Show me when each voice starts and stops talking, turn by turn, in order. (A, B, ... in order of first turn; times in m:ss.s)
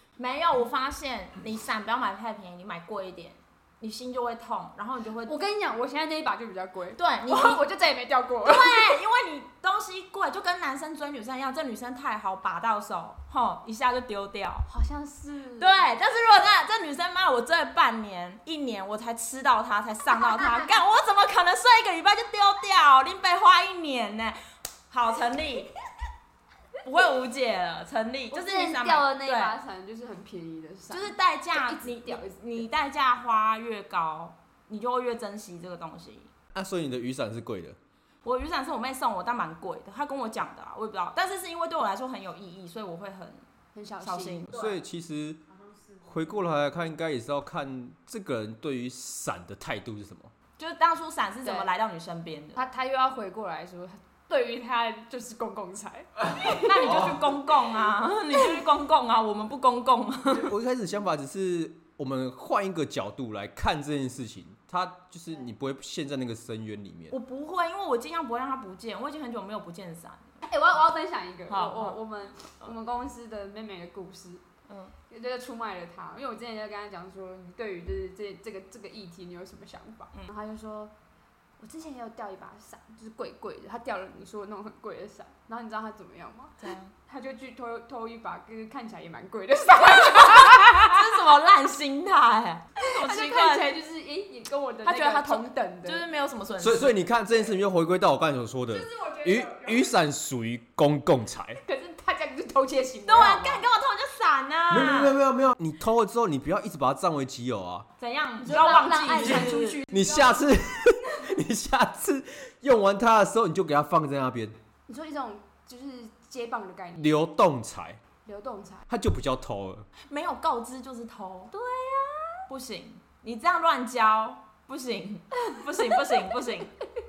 0:00.2-0:05.4 A
0:05.2-0:09.0 B
0:07.0-0:07.6 A
0:08.4-0:14.7 A
0:14.7-0:15.9 B
0:15.6-0:25.7 A
0:20.1-0:20.8 B
0:26.8-0:29.6 A
0:28.3-0:32.7 B
0:30.9-0:36.3 A
0:36.5-0:37.8 C
0:38.2-0:43.4 A
0:43.7-0:44.8 B
0:44.0-0:44.5 A
0:44.5-0:45.4 C
0:45.5-0:46.1 B
0:46.0-0:50.3 C
0:50.6-0:52.6 A
0:51.4-0:51.7 B
0:52.6-0:57.0 B
0:56.4-0:57.2 C
0:56.5-1:00.5 A
1:00.3-1:07.2 C
1:07.1-1:10.4 A
1:10.5-1:14.4 B
1:11.5-1:12.0 A
1:14.7-1:14.9 A
1:15.1-1:20.9 B
1:21.6-1:31.3 B
1:26.6-1:26.9 A
1:29.9-1:33.7 A
1:32.8-1:36.1 B
1:34.8-1:37.0 A
1:36.6-1:41.6 C
1:38.7-1:40.0 B
1:41.6-1:43.6 B
1:43.1-1:45.2 A
1:44.7-1:47.9 C
1:48.0-1:49.8 A
1:48.4-1:50.5 B
1:49.2-1:54.6 C
1:54.9-1:57.2 B
1:57.0-1:58.0 C
1:58.2-1:58.9 B
1:58.9-1:59.9 C
2:00.0-2:01.5 A
2:01.5-2:02.4 B
2:02.5-2:06.7 A